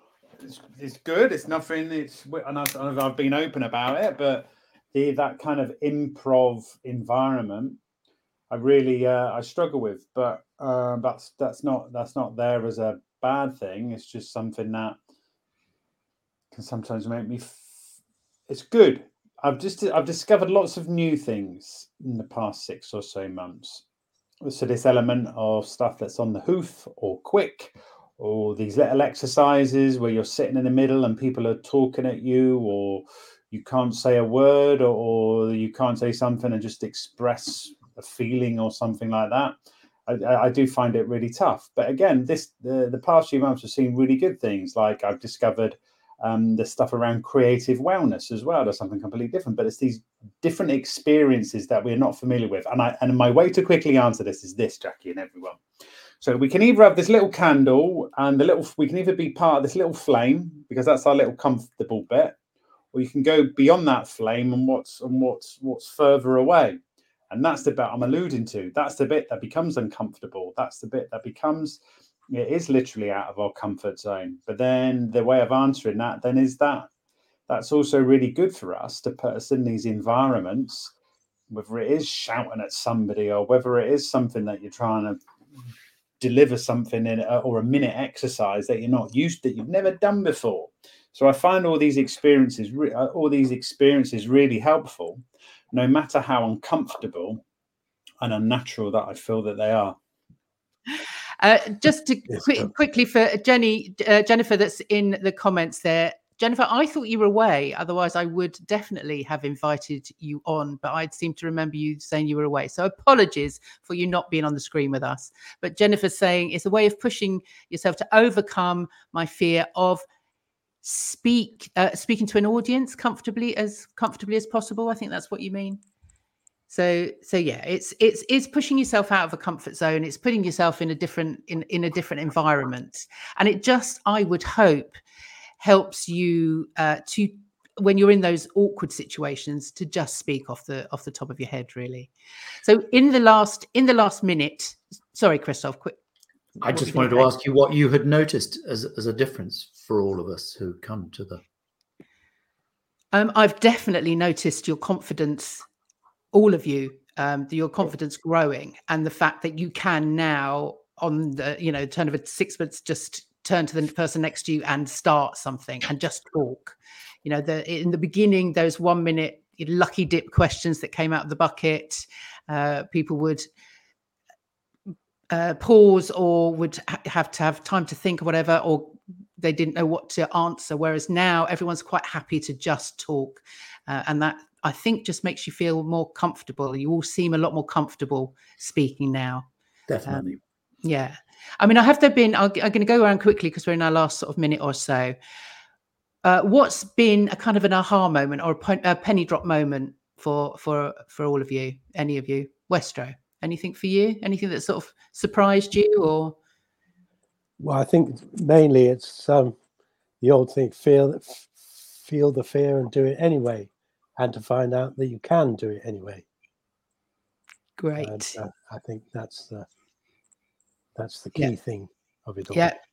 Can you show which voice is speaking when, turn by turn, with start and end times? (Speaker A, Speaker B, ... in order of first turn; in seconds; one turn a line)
Speaker A: 0.4-7.8
Speaker A: 8.5-15.0
Speaker A: 16.5-17.6
Speaker A: 18.5-23.8
Speaker A: 24.4-39.5
Speaker A: 40.1-55.6
Speaker A: 56.2-62.4
Speaker A: 62.9-66.8
Speaker A: 67.3-71.8
Speaker A: 72.3-76.9
Speaker A: 77.5-80.9
Speaker A: 81.5-85.2
Speaker A: 86.2-97.4
Speaker A: 98.2-100.0
Speaker B: 100.9-120.0
Speaker B: 120.8-125.8
Speaker B: 126.7-135.0
Speaker B: 135.6-142.1
Speaker B: 142.6-146.0
Speaker C: 146.6-151.4
Speaker B: 146.7-147.3
Speaker B: 153.1-155.7
Speaker B: 156.3-173.5
Speaker B: 175.3-189.5
Speaker C: 189.9-190.4
Speaker B: 190.8-195.2
Speaker B: 196.2-206.4
Speaker D: 207.6-209.6
Speaker D: 210.2-216.3
Speaker B: 217.8-218.4
Speaker D: 218.0-219.7
Speaker D: 221.0-222.7
Speaker B: 222.5-222.8